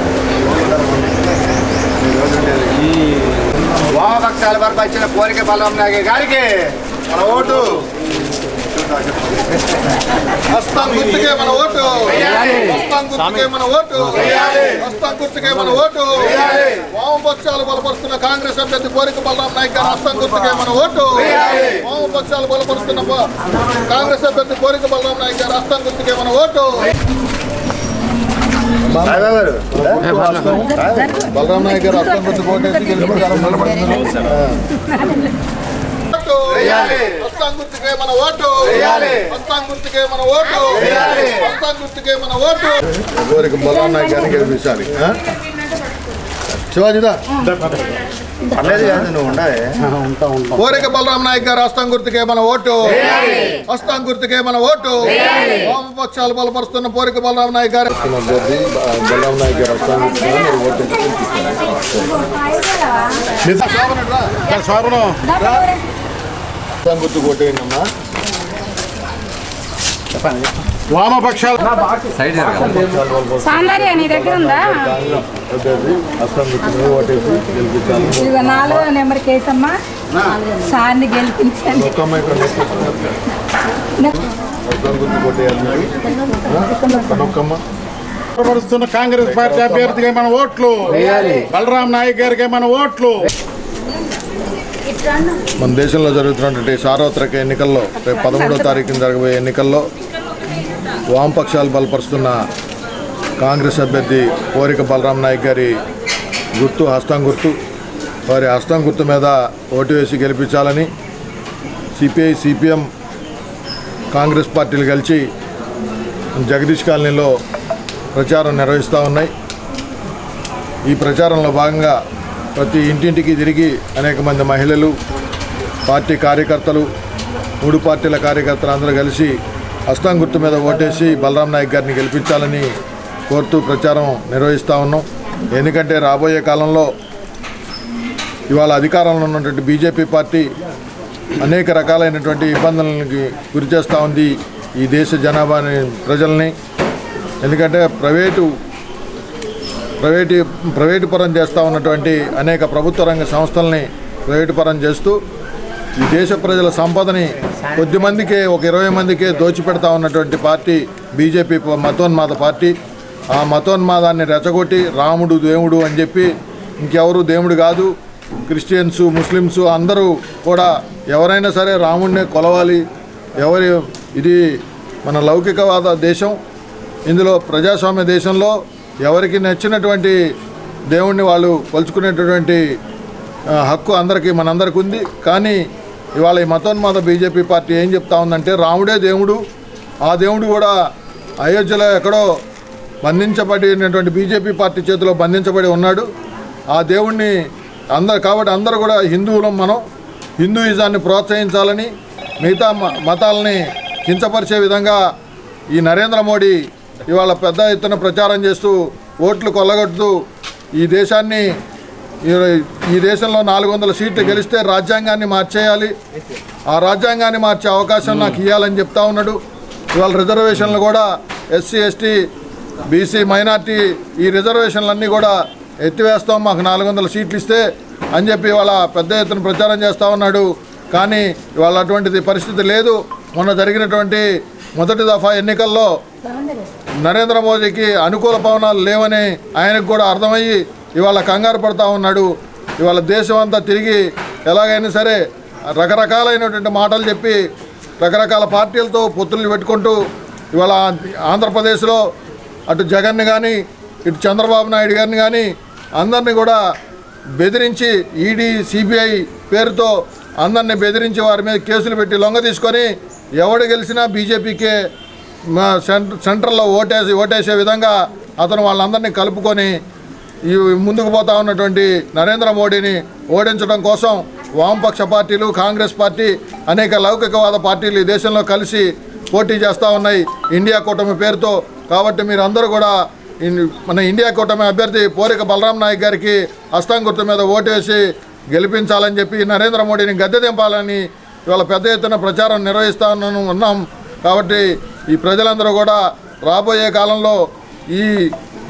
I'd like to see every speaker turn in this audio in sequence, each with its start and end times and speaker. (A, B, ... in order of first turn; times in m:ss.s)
0:00.6-0:01.1 A
0:02.0-0:02.8 A
0:03.8-0:07.9 A
0:09.1-0:09.5 A
0:10.5-0:26.9 B
0:28.8-0:34.7 B
0:29.3-0:29.7 A
0:30.2-0:32.0 C
0:34.7-0:35.3 C
0:36.0-0:45.2 B
0:46.5-0:47.4 B
0:48.6-0:50.5 A
0:50.5-1:02.4 B
1:02.4-1:03.2 C
1:03.4-1:03.7 D
1:03.6-1:04.4 B
1:04.5-1:05.2 D
1:05.3-1:05.8 C
1:05.4-1:05.7 B
1:06.8-1:07.9 B
1:10.9-1:12.3 D
1:12.2-1:18.9 B
1:13.4-1:14.8 C
1:18.2-1:21.9 C
1:21.7-1:23.2 B
1:24.0-1:24.2 C
1:24.6-1:27.6 B
1:28.4-1:33.3 D
1:35.6-1:39.8 B
1:41.1-1:42.4 B
1:43.4-1:45.8 B
1:46.6-1:47.5 B
1:48.3-1:50.9 B
1:51.9-1:52.8 B
1:54.1-1:55.2 B
1:56.4-1:57.3 B
1:58.1-1:59.3 B
2:00.9-2:02.0 B
2:02.5-2:04.9 B
2:05.8-2:06.9 B
2:07.6-2:09.4 B
2:09.9-2:12.7 B
2:13.3-2:16.9 B
2:18.5-2:20.5 B
2:21.4-2:26.5 B
2:27.4-2:28.5 B
2:30.0-2:35.2 B
2:36.0-2:42.7 B
2:43.3-2:47.9 B
2:48.5-2:52.8 B
2:53.4-2:54.4 B
2:55.0-2:56.4 B
2:57.1-3:00.2 B
3:00.9-3:02.6 B
3:03.5-3:05.6 B
3:06.2-3:09.4 B
3:10.0-3:10.7 B
3:11.4-3:12.3 B
3:13.0-3:16.1 B
3:16.7-3:17.4 B
3:17.9-3:19.8 B
3:20.4-3:25.0 B
3:25.7-3:30.2 B
3:30.8-3:31.5 B
3:32.2-3:35.9 B
3:36.7-3:39.4 B
3:39.9-3:42.2 B
3:42.9-3:55.9 B
3:57.0-4:05.2 B
4:05.8-4:07.4 B
4:08.0-4:10.0 B
4:10.5-4:12.0 B
4:12.7-4:16.6 B
4:17.4-4:24.8 B
4:25.5-4:29.8 B
4:30.5-4:57.4 B
4:57.9-4:58.3 B